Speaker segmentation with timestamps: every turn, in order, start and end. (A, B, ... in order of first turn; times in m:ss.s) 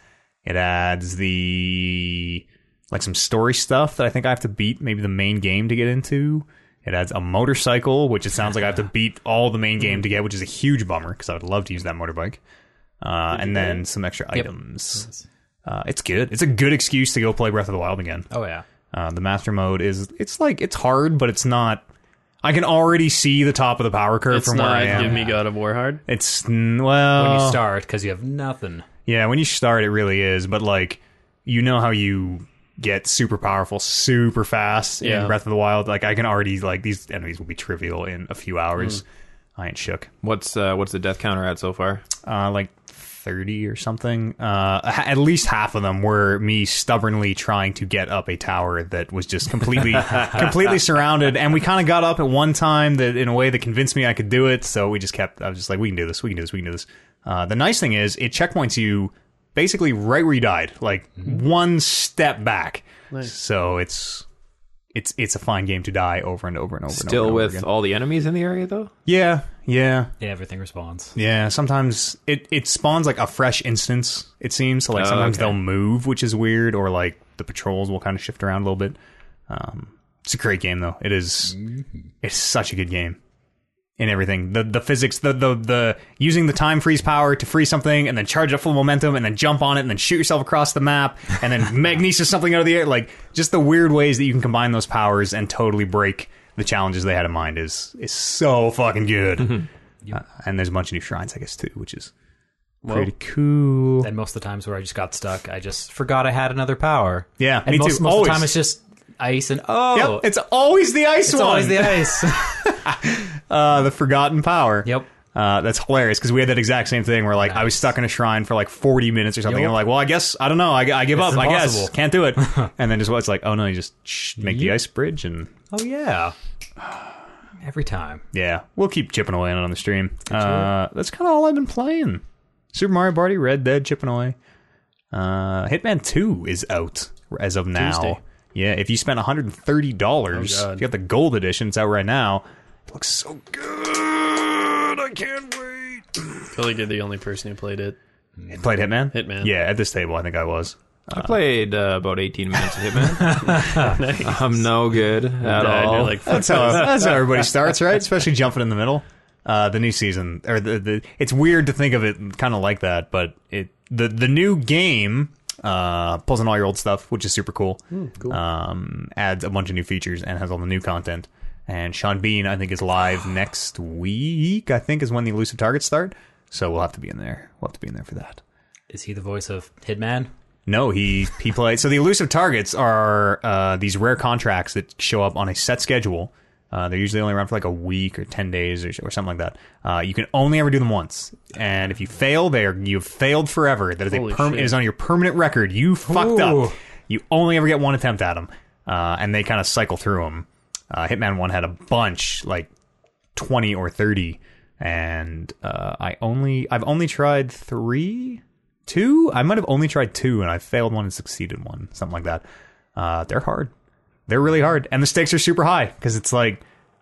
0:00.4-0:12.4 A
0:13.0-0:15.1 A
0:15.7-0:18.3 A
0:18.3-0:18.6 B
0:18.9-0:21.8 A
0:22.4-0:25.3 A
0:24.3-0:26.0 C
0:24.9-0:25.3 B
0:26.1-0:27.6 A
0:27.2-0:28.9 B
0:29.1-0:39.0 A
0:35.0-0:35.4 C
0:39.6-0:40.1 A
0:40.2-0:42.1 D
0:42.2-1:04.3 A
1:04.9-1:07.7 A
1:06.9-1:08.9 D
1:09.1-1:10.1 A
1:10.2-1:11.2 B
1:11.2-1:19.0 A
1:15.0-1:15.6 D
1:19.5-1:21.6 A
1:22.2-1:23.2 A
1:24.0-1:42.1 A
1:42.8-1:43.1 C
1:42.9-1:44.1 A
1:44.0-1:50.3 B
1:47.4-1:48.6 A
1:49.9-2:05.5 A
1:51.3-1:52.7 B
1:57.4-1:57.7 B
1:59.5-1:59.8 B
2:01.1-2:01.9 B
2:04.4-2:04.8 B
2:05.7-2:06.4 B
2:07.6-2:08.2 B
2:08.3-2:14.4 A
2:10.3-2:10.7 B
2:15.1-2:26.4 A
2:17.8-2:18.2 C
2:20.3-2:20.8 C
2:26.5-2:28.0 C
2:28.5-2:31.4 A
2:29.1-2:29.5 C
2:31.1-2:36.9 D
2:33.2-2:33.9 B
2:33.4-2:34.6 C
2:35.4-2:37.2 C
2:36.2-2:58.4 A
2:47.9-2:48.4 C
2:58.9-3:00.3 B
3:00.7-3:22.7 A
3:14.1-3:14.8 C
3:16.1-3:16.8 B
3:23.4-3:32.4 A
3:33.0-3:33.7 A
3:34.3-3:36.6 A